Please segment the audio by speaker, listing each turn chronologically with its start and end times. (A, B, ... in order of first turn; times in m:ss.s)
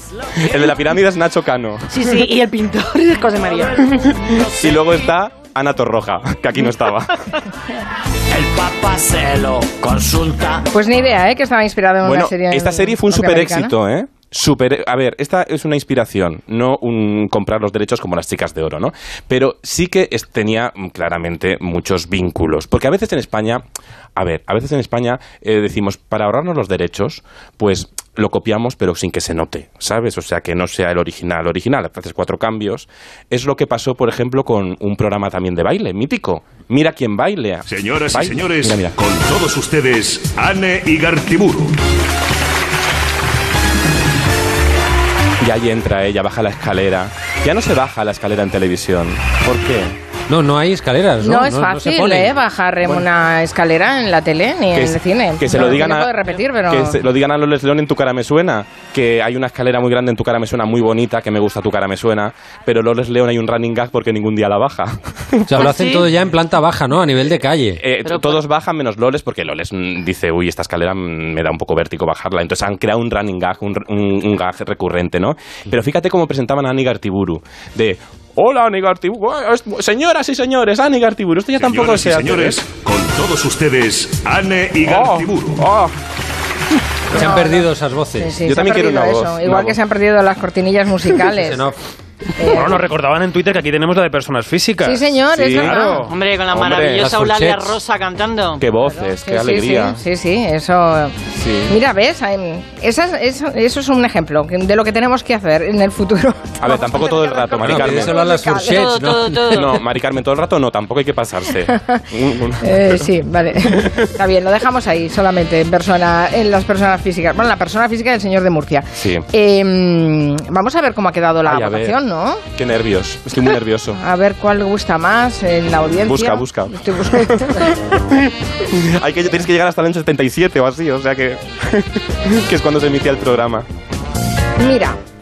0:00.4-0:02.2 A
0:01.9-0:03.8 B
0:03.9-0:07.4 A
0:08.4-0:10.6 C
0:10.7-0:13.7 D
0:12.0-0:23.6 A
0:24.2-0:39.0 A
0:37.7-0:41.8 E
0:45.4-0:50.0 A
0:50.3-0:52.3 F
0:51.2-0:57.0 D
0:54.7-0:56.1 A
0:56.7-1:05.9 A
1:05.5-1:07.8 F
1:07.8-1:22.7 A
1:08.0-1:08.4 B
1:21.6-1:25.6 E
1:24.8-1:25.9 A
1:27.1-1:31.7 D
1:27.1-1:28.4 F
1:28.4-1:29.8 A
1:31.3-1:31.8 F
1:32.4-1:32.9 D
1:32.5-1:36.1 G
1:34.8-1:36.1 D
1:35.3-1:35.9 A
1:36.1-1:38.7 B
1:36.5-1:37.1 A
1:37.0-1:37.8 F
1:38.6-1:40.0 A
1:38.9-1:41.2 D
1:41.3-1:41.8 A
1:41.7-1:49.0 D
1:46.6-1:48.2 A
1:47.6-1:49.8 F
1:48.8-1:49.6 B
1:49.5-1:54.1 A
1:51.7-1:52.0 D
1:52.6-2:02.4 D
1:59.0-1:59.3 A
2:01.4-2:02.0 A
2:02.5-2:04.0 A
2:04.0-2:07.8 D
2:06.0-2:13.7 A
2:14.6-2:15.0 D